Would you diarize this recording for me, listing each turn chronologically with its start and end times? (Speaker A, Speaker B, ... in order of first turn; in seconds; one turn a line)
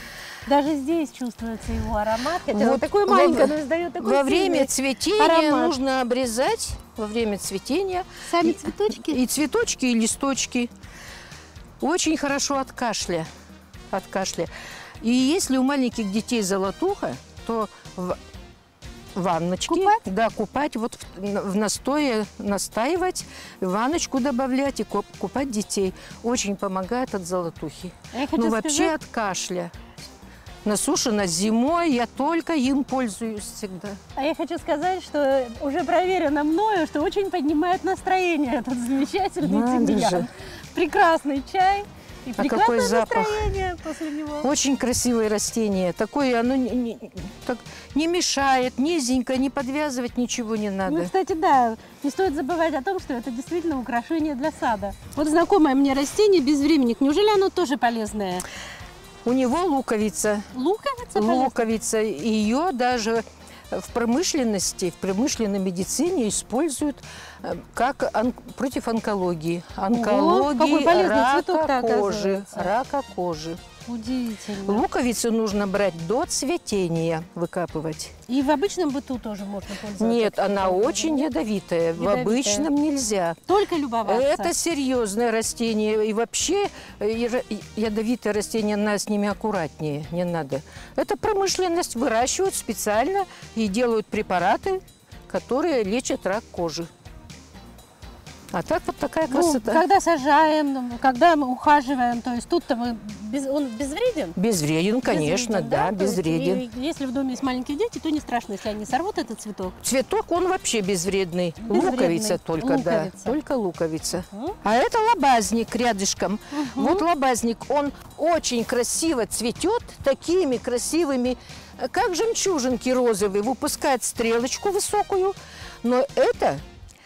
Speaker A: 0.5-5.7
Speaker B: 2.5-10.7
Speaker A: 8.2-9.2
Speaker B: 11.8-13.3
Speaker B: 13.9-14.5
Speaker B: 15.0-18.2
Speaker B: 19.1-29.7
Speaker A: 19.7-20.0
Speaker A: 28.1-28.9
Speaker B: 30.6-34.0
Speaker A: 34.1-44.5
Speaker B: 39.4-40.3
Speaker B: 42.4-43.5
Speaker B: 44.4-51.1
Speaker A: 50.9-58.5
Speaker B: 59.2-60.5
Speaker A: 60.5-61.6
Speaker B: 61.1-73.6
Speaker A: 69.9-72.7
Speaker A: 73.9-74.8
Speaker B: 74.6-78.1
Speaker A: 78.3-81.3
Speaker B: 80.0-83.4
Speaker A: 82.0-82.7
Speaker A: 83.5-84.5
Speaker B: 84.0-96.9
Speaker B: 98.5-99.8
Speaker A: 99.3-104.3
Speaker B: 104.4-106.6
Speaker A: 105.0-109.8
Speaker B: 109.8-126.6
Speaker A: 111.6-113.4
Speaker A: 114.3-114.6
Speaker A: 116.5-117.0